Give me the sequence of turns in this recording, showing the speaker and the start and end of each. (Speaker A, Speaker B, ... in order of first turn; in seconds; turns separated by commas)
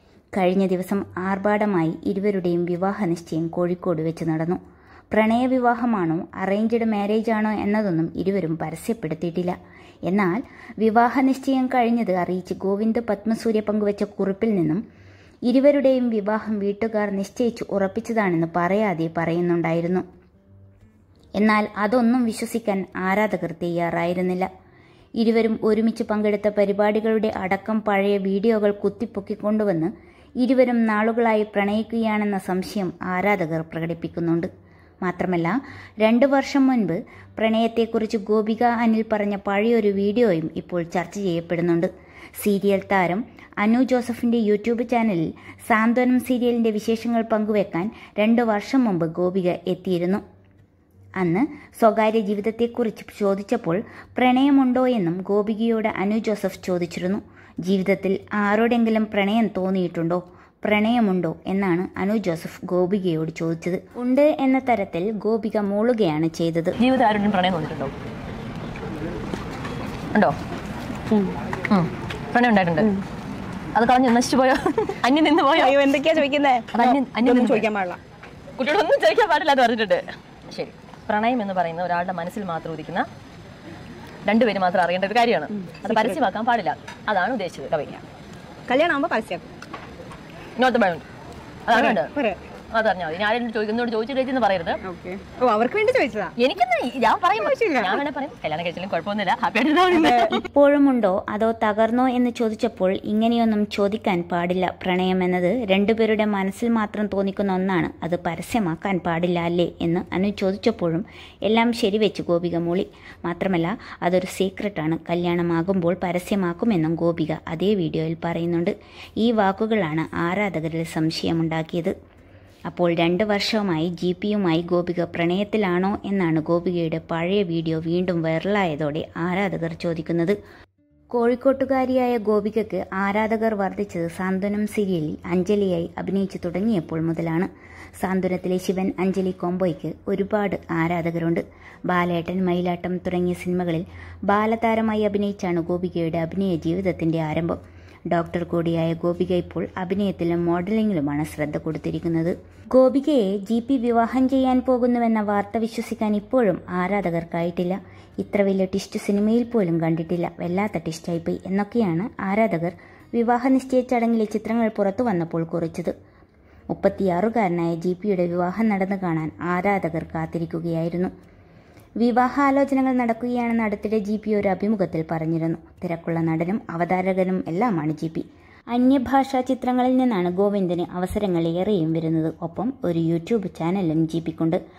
Speaker A: 0.3-4.6, Speaker A: 5.1-9.6, Speaker A: 10.1-14.8, Speaker A: 15.5-20.0, Speaker A: 21.4-24.5, Speaker A: 25.2-34.5, Speaker A: 35.0-50.2, Speaker A: 51.2-66.8, Speaker B: 66.8-67.9, Speaker B: 71.7-72.9, Speaker B: 73.8-75.8, Speaker C: 75.5-78.0, Speaker B: 76.7-77.7, Speaker B: 78.6-83.1, Speaker B: 84.3-88.0, Speaker C: 85.6-86.2, Speaker C: 88.7-89.5, Speaker B: 90.6-91.0, Speaker B: 91.7-92.1, Speaker C: 91.7-92.4, Speaker B: 92.7-94.8, Speaker C: 94.8-96.3, Speaker B: 96.4-100.5, Speaker C: 97.4-98.0, Speaker C: 99.9-100.4, Speaker A: 100.5-121.9, Speaker A: 122.7-130.4, Speaker A: 131.1-137.5, Speaker A: 138.0-147.6, Speaker A: 148.1-165.9, Speaker A: 166.7-171.1, Speaker A: 172.0-184.6